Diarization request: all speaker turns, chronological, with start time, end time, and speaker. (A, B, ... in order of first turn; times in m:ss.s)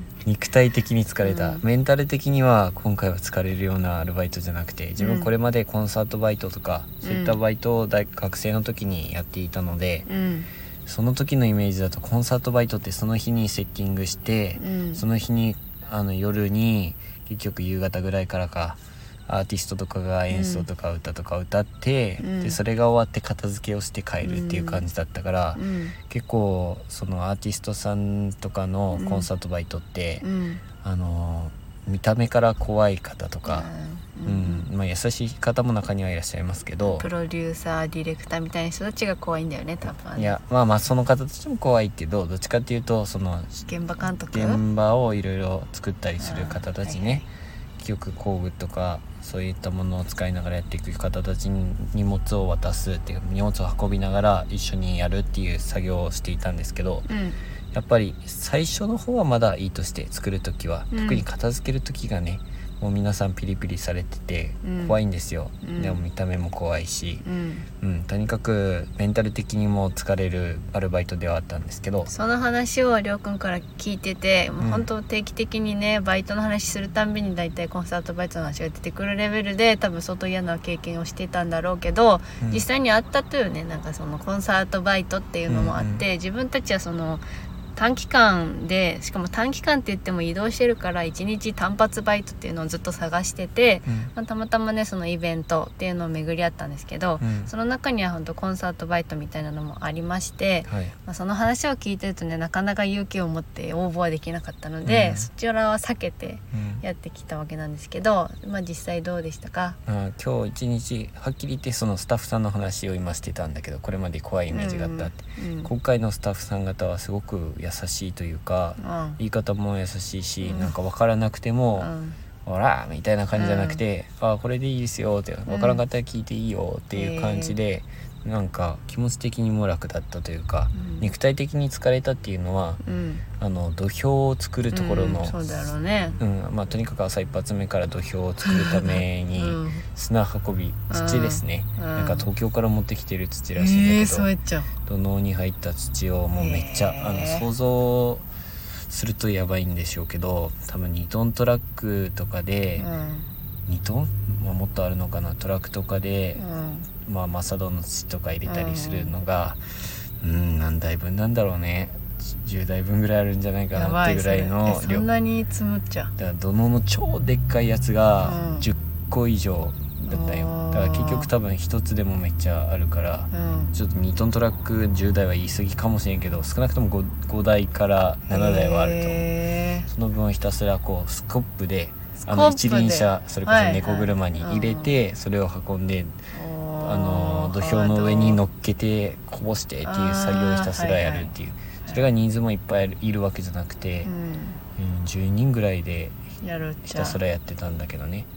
0:00.2-0:10.1 A
0:01.2-0:01.6 B
0:05.0-0:05.3 B
0:07.0-0:07.4 B
0:10.1-0:10.5 B
0:10.8-0:30.3 A
0:14.6-0:15.0 B
0:20.3-0:20.7 B
0:22.2-0:22.6 B
0:24.2-0:24.9 B
0:25.5-0:25.9 B
0:28.9-0:29.3 B
0:30.2-0:30.6 B
0:30.8-0:33.7 A
0:33.5-0:34.6 B
0:34.2-0:37.1 A
0:36.8-0:40.4 B
0:40.1-0:43.7 A
0:43.6-0:44.6 B
0:44.3-0:47.2 A
0:46.2-0:47.2 B
0:47.8-0:57.0 A
0:57.0-0:57.4 B
0:57.7-1:07.2 A
1:00.9-1:01.2 B
1:04.6-1:05.0 B
1:05.6-1:06.0 B
1:07.2-1:07.7 B
1:07.8-1:12.1 A
1:12.1-1:27.2 B
1:14.6-1:14.9 A
1:22.4-1:22.6 A
1:25.5-1:26.0 A
1:27.8-1:49.8 B
1:33.8-1:34.1 A
1:37.2-1:37.5 A
1:40.6-1:40.9 A
1:44.8-1:45.3 A
1:46.5-1:46.8 A
1:49.8-2:01.9 A
1:54.5-1:55.7 B
1:58.8-1:59.2 B
2:00.4-2:00.7 B
2:01.8-2:02.2 B
2:02.4-2:12.8 A
2:03.3-2:03.8 B
2:05.5-2:05.8 B
2:06.9-2:07.6 B
2:10.7-2:11.1 B
2:12.8-2:13.2 B
2:13.4-2:24.3 A
2:14.7-2:16.2 B
2:18.4-2:19.8 B
2:20.9-2:22.3 B
2:23.5-2:24.7 B
2:24.8-2:28.2 A
2:26.4-2:27.4 B
2:28.9-2:32.9 A
2:32.8-2:33.3 B
2:33.7-2:36.4 A
2:36.4-2:36.9 B
2:37.0-2:39.6 A
2:38.4-2:39.1 B
2:40.2-2:45.1 A
2:43.7-2:46.1 B
2:46.2-2:59.3 A
2:48.2-2:48.7 B
2:50.0-2:51.3 B
2:53.3-2:53.7 B
2:58.3-2:59.9 B
2:59.8-3:06.2 A
3:02.2-3:04.9 B
3:06.3-3:08.4 B
3:06.8-3:14.1 A
3:09.8-3:11.3 B
3:14.0-3:14.6 B
3:14.8-3:16.2 A
3:16.4-3:17.2 B
3:16.8-3:18.3 A